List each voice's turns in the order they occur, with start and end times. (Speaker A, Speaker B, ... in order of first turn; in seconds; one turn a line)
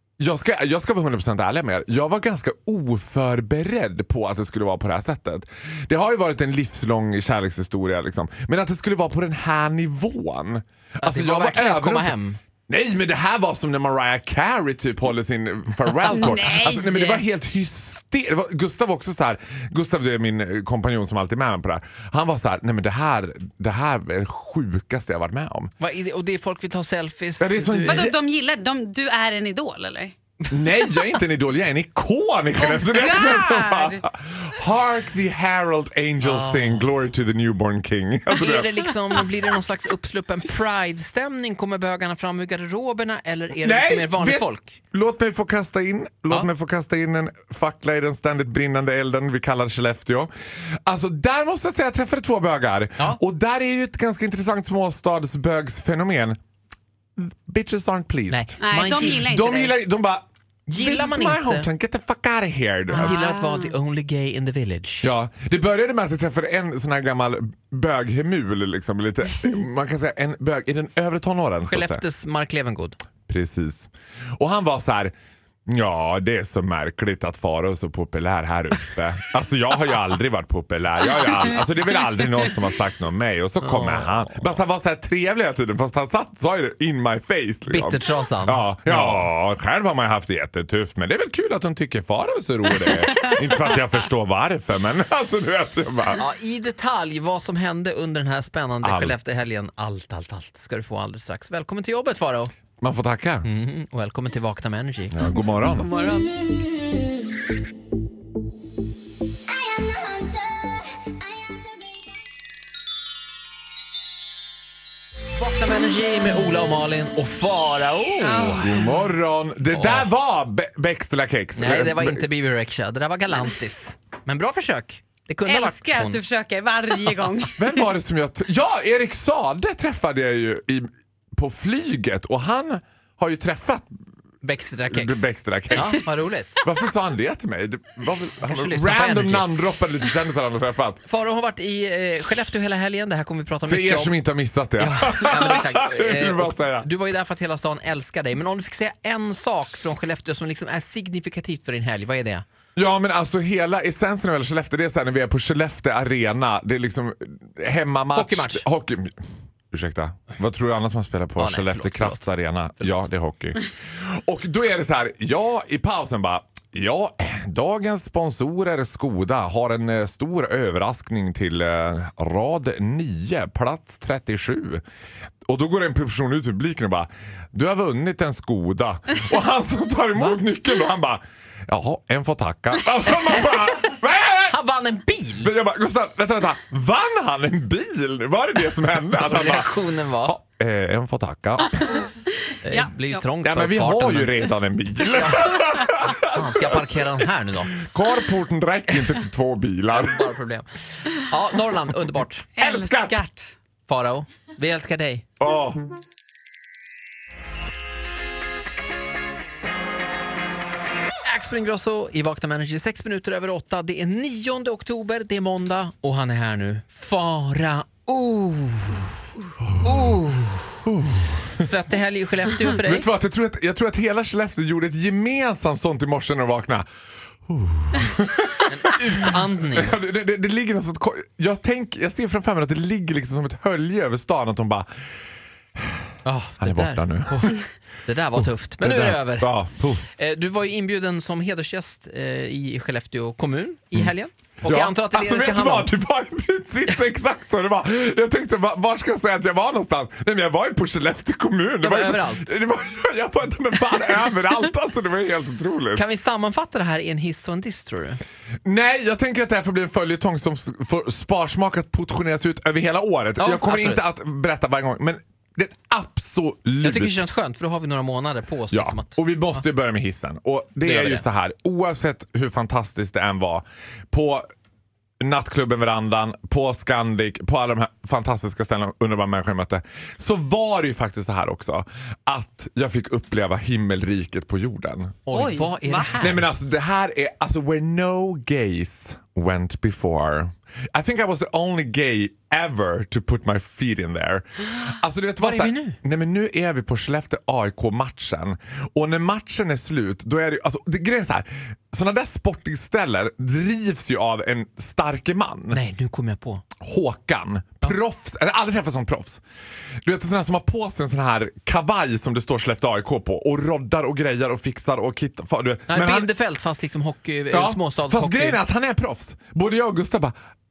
Speaker A: 0.2-12.2
Speaker B: 11.0-12.4
Speaker A: 12.7-25.7
Speaker C: 16.0-17.2
Speaker B: 25.8-28.1
Speaker A: 27.4-28.2
Speaker C: 27.9-30.1
Speaker A: 30.5-38.8
Speaker C: 32.6-34.0
Speaker B: 36.2-36.9
Speaker B: 38.3-44.8
Speaker A: 43.6-50.3
Speaker A: 50.9-56.4
Speaker A: 57.2-63.2
Speaker B: 58.3-59.3
Speaker C: 58.6-59.8
Speaker B: 60.7-61.7
Speaker B: 62.9-65.1
Speaker C: 62.9-63.7
Speaker A: 65.0-72.0
Speaker B: 71.7-73.0
Speaker A: 73.3-75.1
Speaker A: 75.7-96.2
Speaker B: 83.6-84.5
Speaker B: 87.7-89.3
Speaker B: 96.2-102.5
Speaker A: 98.8-99.2
Speaker A: 102.8-103.5
Speaker B: 103.4-105.2
Speaker A: 105.1-105.9
Speaker C: 105.8-106.4
Speaker B: 115.3-118.7
Speaker C: 118.2-118.9
Speaker A: 118.5-122.3
Speaker B: 119.7-120.1
Speaker B: 121.6-126.2
Speaker C: 125.5-127.7
Speaker A: 127.6-133.9
Speaker B: 134.4-136.6
Speaker A: 134.9-136.1
Speaker A: 136.6-141.0
Speaker B: 138.4-139.5
Speaker B: 141.1-144.2
Speaker A: 143.7-146.9
Speaker B: 144.8-152.4
Speaker A: 152.8-159.2
Speaker B: 158.1-158.7
Speaker A: 159.7-174.8
Speaker B: 161.4-163.1
Speaker A: 175.5-184.6
Speaker B: 184.5-185.5
Speaker A: 185.4-192.1
Speaker B: 189.2-190.4
Speaker B: 192.6-194.5
Speaker C: 192.7-193.2
Speaker A: 193.4-197.0
Speaker B: 195.2-197.8
Speaker A: 197.8-200.3
Speaker B: 199.9-202.5
Speaker C: 202.6-203.5
Speaker A: 202.6-203.2
Speaker B: 203.9-205.3
Speaker A: 205.4-205.8
Speaker B: 211.2-219.1
Speaker A: 219.7-220.0
Speaker B: 219.8-220.7
Speaker A: 220.9-221.7
Speaker B: 221.6-223.1
Speaker A: 222.7-226.9
Speaker A: 227.5-234.9
Speaker B: 228.7-229.9
Speaker B: 236.2-245.9
Speaker A: 236.6-237.6
Speaker A: 238.4-240.1
Speaker A: 243.9-256.1
Speaker B: 251.8-252.5
Speaker B: 255.9-258.2
Speaker A: 258.6-267.2
Speaker B: 263.4-264.0
Speaker B: 266.8-269.6
Speaker A: 268.7-274.4
Speaker B: 270.8-271.2
Speaker A: 275.2-285.2
Speaker B: 285.3-286.5
Speaker C: 285.3-286.2
Speaker A: 286.2-305.8
Speaker B: 295.4-296.0
Speaker B: 305.7-306.6
Speaker A: 306.8-309.4
Speaker A: 310.1-316.3
Speaker B: 315.9-318.6
Speaker A: 317.5-320.4